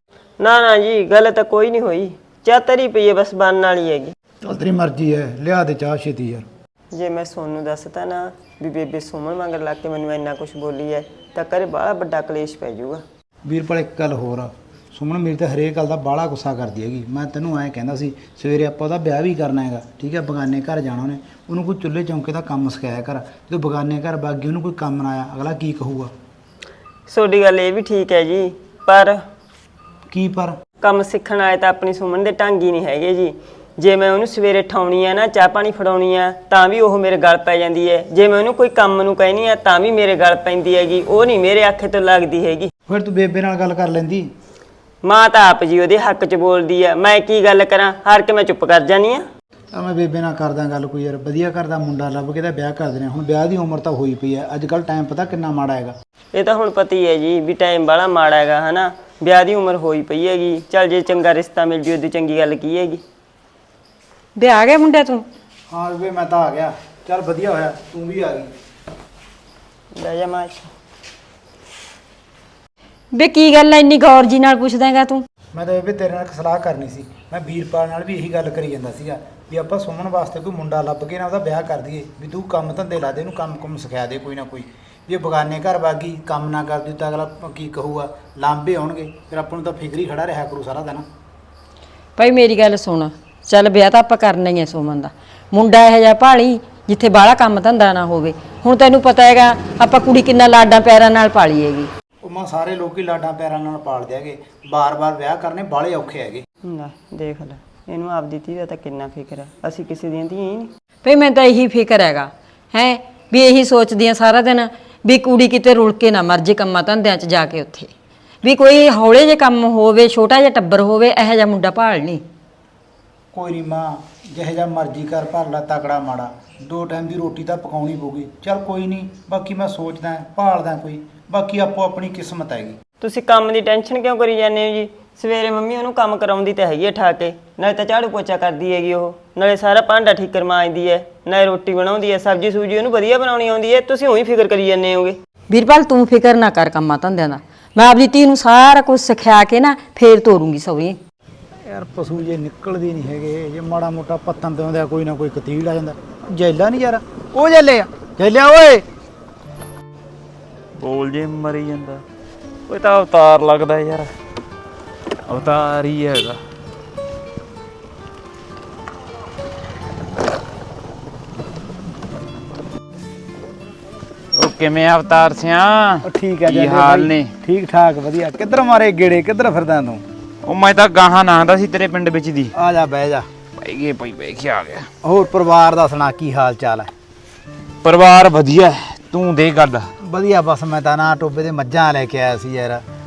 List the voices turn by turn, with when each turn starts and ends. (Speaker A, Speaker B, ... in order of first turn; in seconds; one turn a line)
Speaker A: 0.4-4.1
Speaker B: 4.4-6.5
Speaker A: 6.9-13.0
Speaker B: 13.4-26.1
Speaker A: 27.1-29.2
Speaker B: 30.1-30.6
Speaker A: 30.8-42.7
Speaker B: 42.9-44.3
Speaker A: 45.0-49.3
Speaker B: 49.7-56.0
Speaker A: 56.3-63.0
Speaker C: 64.4-65.2
Speaker B: 65.7-68.5
Speaker A: 70.0-70.7
Speaker C: 73.1-75.2
Speaker B: 75.5-91.1
Speaker C: 92.2-101.9
Speaker B: 102.2-106.4
Speaker A: 106.7-110.7
Speaker C: 111.0-117.9
Speaker C: 118.4-122.2
Speaker B: 123.3-132.8
Speaker A: 133.0-145.2
Speaker C: 145.5-151.0
Speaker B: 151.7-158.9
Speaker D: 160.8-162.0
Speaker D: 162.7-164.1
Speaker D: 165.3-166.4
Speaker D: 174.4-177.3
Speaker B: 176.1-180.0
Speaker D: 180.5-182.5
Speaker B: 182.6-183.3
Speaker D: 183.6-184.9
Speaker B: 185.0-186.9
Speaker D: 187.8-189.9
Speaker B: 190.0-192.8